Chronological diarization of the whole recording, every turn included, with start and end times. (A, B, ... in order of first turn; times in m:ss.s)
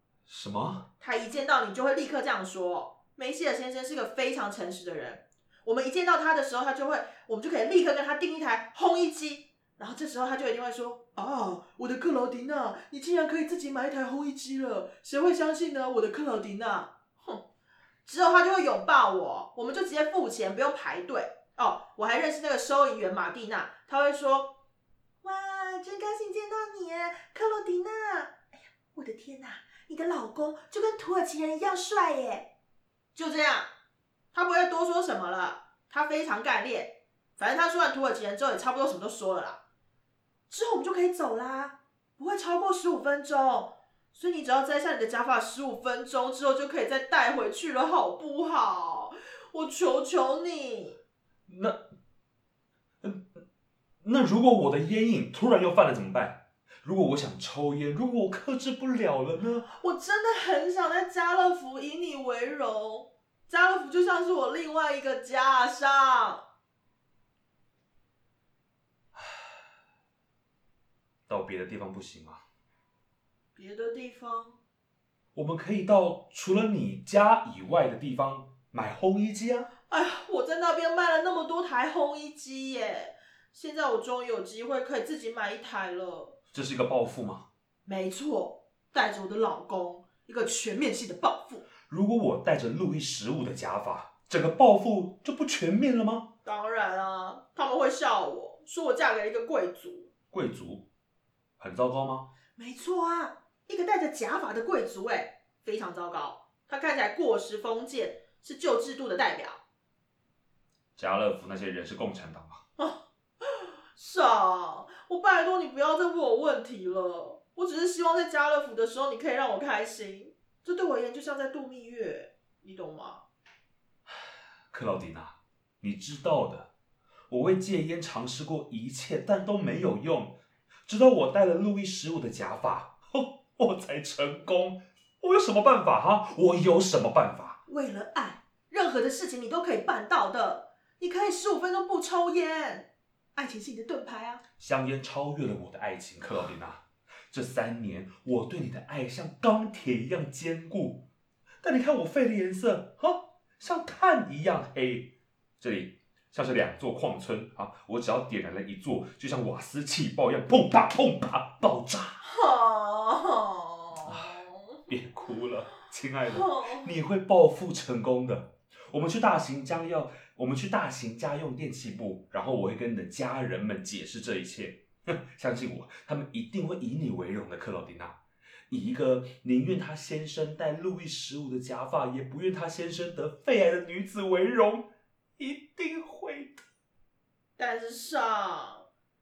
0:00.3-0:00.9 A
0:01.0-0:17.5 B
0:18.1-0:24.6 B
0:25.2-0:32.5 B
0:33.2-0:33.7 B
0:34.3-0:39.6 B
0:40.5-0:51.0 B
0:51.5-0:51.8 A
0:53.0-0:53.4 A
0:54.0-0:59.7 A
0:59.8-1:06.4 B
1:11.3-1:12.4 A
1:13.6-1:14.6 B
1:15.4-1:19.7 A
1:19.9-1:26.4 B
1:26.5-1:27.5 A
1:27.8-1:31.7 B
1:31.9-1:36.3 A
1:36.4-1:40.1 B
1:40.3-1:40.9 A
1:41.6-1:42.3 A
1:42.6-1:49.6 B
1:51.0-1:52.6 A
1:52.8-2:03.2 B
2:04.7-2:06.7 A
2:07.3-2:17.6 A
2:17.7-2:24.4 B
2:24.6-2:31.1 A
2:31.6-2:42.2 A
2:42.2-2:44.8 B
2:44.1-2:58.2 A
2:46.3-2:46.9 B
2:58.7-3:06.6 A
3:07.6-3:08.9 B